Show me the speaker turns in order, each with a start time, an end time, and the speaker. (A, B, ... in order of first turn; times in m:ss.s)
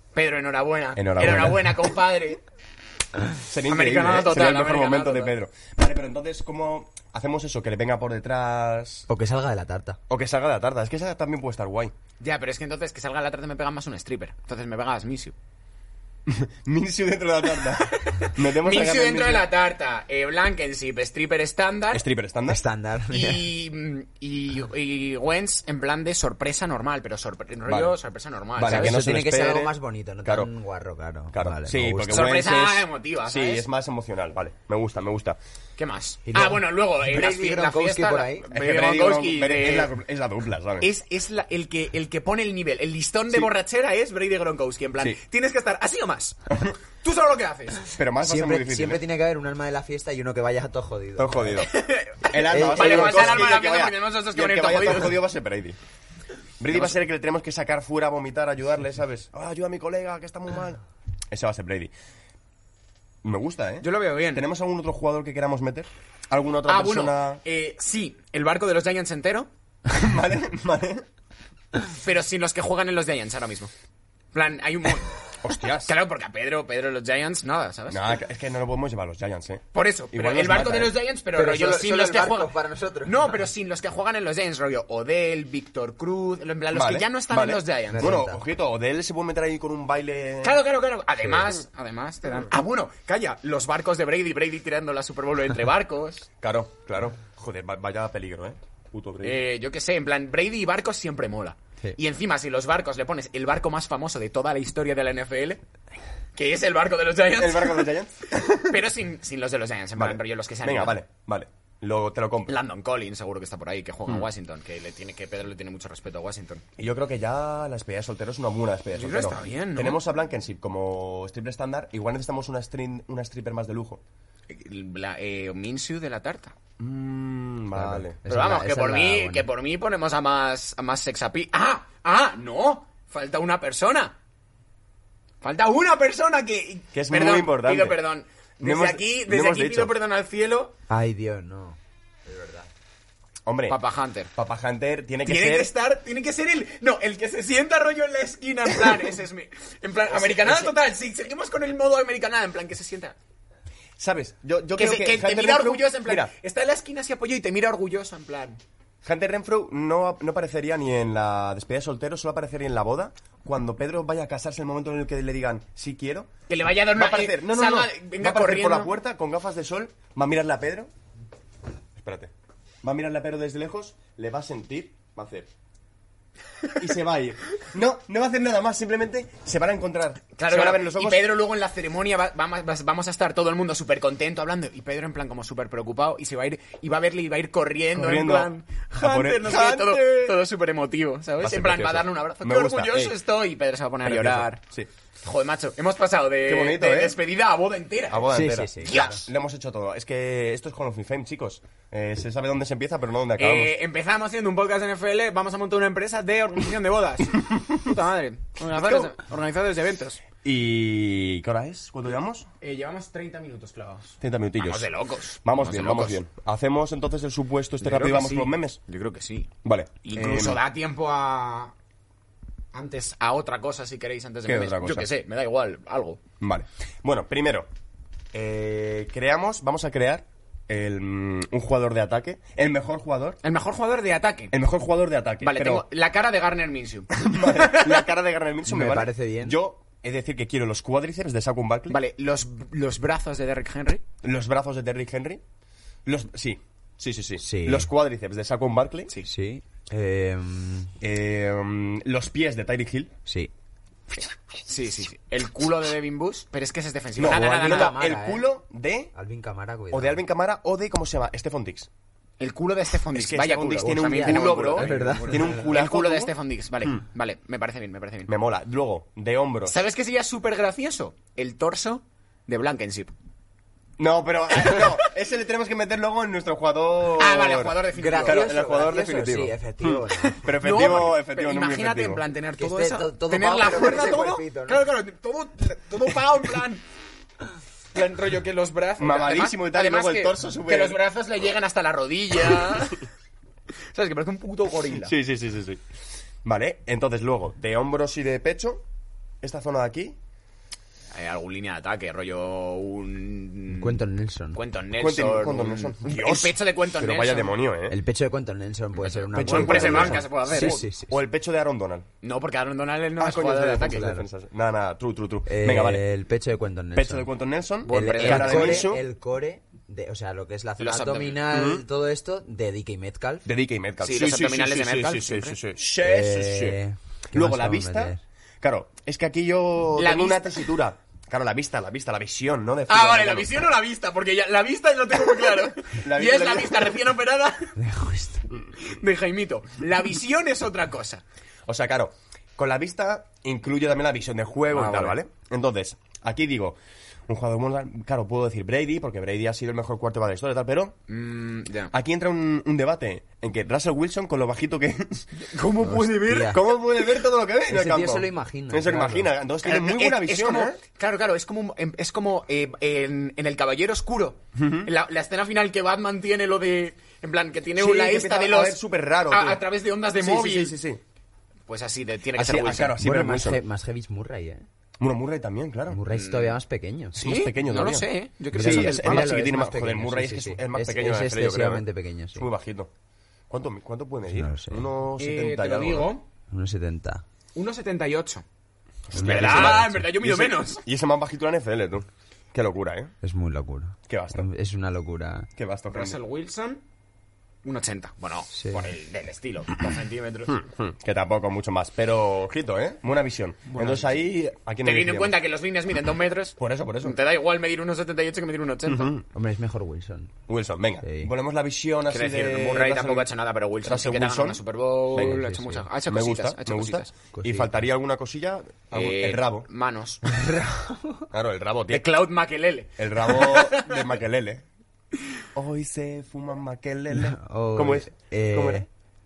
0:00.2-0:02.4 A
0:01.0-0:01.9 B
0:03.4-0:09.1 B
0:03.7-0:05.4 A
0:09.1-0:10.0 C
0:10.1-0:11.9 B
0:12.2-0:15.4 A
0:16.3-0:19.5 B
0:17.6-0:22.0 A
0:21.9-0:22.6 B
0:22.5-0:23.5 C
0:23.1-0:29.0 A
0:27.7-0:28.0 B
0:28.6-0:30.5 B
0:28.7-0:32.4 C
0:31.3-0:35.4 B
0:32.1-0:33.6 A
0:35.8-0:39.9 A
0:36.3-0:38.5 C
0:38.5-0:40.9 B
0:40.8-0:47.9 A
0:48.0-0:49.0 B
0:48.2-0:51.7 C
0:51.2-0:55.8 B
0:51.6-0:55.2 A
0:52.4-0:53.5 C
0:56.6-1:01.9 B
1:03.2-1:07.4 B
1:03.8-1:04.5 A
1:06.7-1:09.5 A
1:09.9-1:11.0 B
1:12.0-1:13.7 A
1:14.3-1:15.1 A
1:15.4-1:15.9 B
1:15.8-1:18.1 A
1:17.9-1:21.0 B
1:19.7-1:22.5 A
1:21.3-1:23.5 C
1:23.0-1:28.2 A
1:26.7-1:30.6 B
1:27.9-1:28.4 C
1:30.4-1:36.3 A
1:36.4-1:39.4 B
1:39.2-1:45.6 A
1:46.4-1:47.9 A
1:47.3-1:48.9 B
1:48.6-1:51.0 A
1:50.0-1:52.6 B
1:52.5-1:56.6 A
1:56.8-2:04.0 B
1:59.0-2:00.0 A
2:04.5-2:06.6 A
2:06.8-2:08.2 B
2:07.8-2:09.5 C
2:08.3-2:14.2 A
2:15.4-2:20.7 A
2:16.9-2:18.0 B
2:18.6-2:19.9 B
2:20.9-2:22.7 C
2:23.5-2:23.8 B
2:23.7-2:24.3 A
2:24.4-2:25.7 B
2:25.2-2:33.2 A
2:30.1-2:30.7 B
2:34.0-2:36.3 B
2:34.8-2:38.6 A
2:39.0-2:46.3 B
2:46.5-2:48.9 A
2:46.9-2:50.9 B
2:52.0-2:52.3 B
2:52.8-2:55.5 B
2:56.8-3:01.3 B
3:00.4-3:14.6 A
3:07.9-3:10.4 B
3:11.4-3:13.2 B
3:14.0-3:14.9 B
3:15.2-3:19.3 A
3:16.5-3:17.2 B
3:18.1-3:23.8 B
3:18.3-3:19.2 C
3:23.4-3:30.2 A
3:28.6-3:29.1 B
3:30.4-3:32.5 B
3:32.6-3:36.2 A
3:34.2-3:34.9 B
3:35.4-3:38.8 B
3:37.8-3:39.5 A
3:39.6-3:40.6 B
3:40.0-3:41.7 A
3:42.7-3:46.2 A
3:44.5-3:45.1 B
3:46.4-3:47.7 B
3:48.3-3:53.4 B
3:53.4-3:54.5 A
3:54.5-3:55.8 B
3:55.4-3:58.0 A
3:57.1-4:02.0 B
3:58.7-3:59.6 C
4:01.9-4:04.0 A
4:04.2-4:05.4 B
4:06.1-4:09.1 B
4:07.4-4:07.9 C
4:09.2-4:10.9 C
4:11.0-4:13.1 B
4:14.7-4:18.0 A
4:17.2-4:19.1 B
4:17.2-4:18.5 C
4:19.1-4:20.2 C
4:19.9-4:21.9 B
4:22.4-4:28.3 A
4:23.1-4:26.3 B
4:23.8-4:25.6 C
4:28.3-4:29.8 B
4:29.7-4:33.1 A
4:34.0-4:42.2 B
4:34.6-4:34.9 A
4:37.2-4:38.5 A
4:38.0-4:40.5 C
4:40.5-4:46.8 A
4:42.6-4:44.9 C
4:47.9-4:53.0 A
4:49.0-4:51.0 B
4:53.9-4:55.1 A
4:54.9-4:55.8 B
4:56.4-4:58.8 B
4:59.4-5:00.2 B
5:01.1-5:04.0 A
5:03.7-5:04.6 C
5:04.5-5:07.5 A
5:05.0-5:08.0 B
5:07.9-5:11.2 C
5:09.0-5:10.9 A
5:09.3-5:12.1 B
5:12.2-5:14.1 A
5:13.2-5:16.0 B
5:13.8-5:14.3 C
5:15.5-5:17.3 C
5:16.9-5:19.0 B
5:17.8-5:18.9 A
5:17.9-5:23.5 C
5:20.8-5:21.4 A
5:21.5-5:21.8 B
5:23.5-5:26.8 B
5:24.0-5:25.6 A
5:26.0-5:28.2 C
5:27.3-5:33.5 B
5:30.0-5:30.6 A
5:32.9-5:37.8 A
5:35.9-5:37.0 B
5:37.8-5:38.4 C
5:38.8-5:41.2 A
5:41.7-5:46.8 B
5:44.7-5:45.2 A
5:47.3-5:51.0 B
5:51.1-5:51.9 A
5:51.9-5:55.3 B
5:55.4-5:56.6 A
5:55.8-5:56.6 C
5:56.3-6:00.8 B
5:57.7-5:59.3 C
5:59.6-6:10.8 A
6:04.6-6:04.9 B
6:07.8-6:09.6 B
6:10.2-6:11.0 B
6:11.7-6:13.0 A
6:12.4-6:13.6 B
6:13.0-6:14.6 C
6:15.0-6:16.0 B
6:15.9-6:17.2 C
6:16.1-6:16.6 A
6:17.1-6:19.3 A
6:17.2-6:21.8 B
6:18.5-6:22.5 C
6:22.4-6:22.9 B
6:23.5-6:26.1 B
6:24.3-6:24.9 C
6:25.2-6:26.2 A
6:26.5-6:27.2 C
6:27.6-6:28.4 A
6:29.1-6:33.1 B
6:29.1-6:30.1 C
6:29.1-6:30.8 A
6:33.2-6:35.5 C
6:34.1-6:34.5 B
6:35.6-6:36.2 B
6:35.9-6:36.8 A
6:37.6-6:40.6 A
6:38.5-6:38.9 C
6:40.5-6:45.4 B
6:43.7-6:44.2 A
6:44.8-6:49.1 A
6:46.6-6:47.2 B
6:48.9-6:49.2 B
6:49.3-6:50.4 C
6:50.5-6:53.3 B
6:51.0-6:51.3 C
6:52.1-6:57.1 A
6:53.8-6:54.6 B
6:55.1-6:55.4 B
6:55.2-6:55.8 C
6:56.1-6:59.7 B
6:57.3-6:57.9 C
6:58.9-7:00.2 A
7:00.3-7:01.3 C
7:01.3-7:02.0 B
7:01.9-7:04.1 A
7:03.0-7:04.6 B
7:05.6-7:08.8 B
7:07.1-7:08.9 C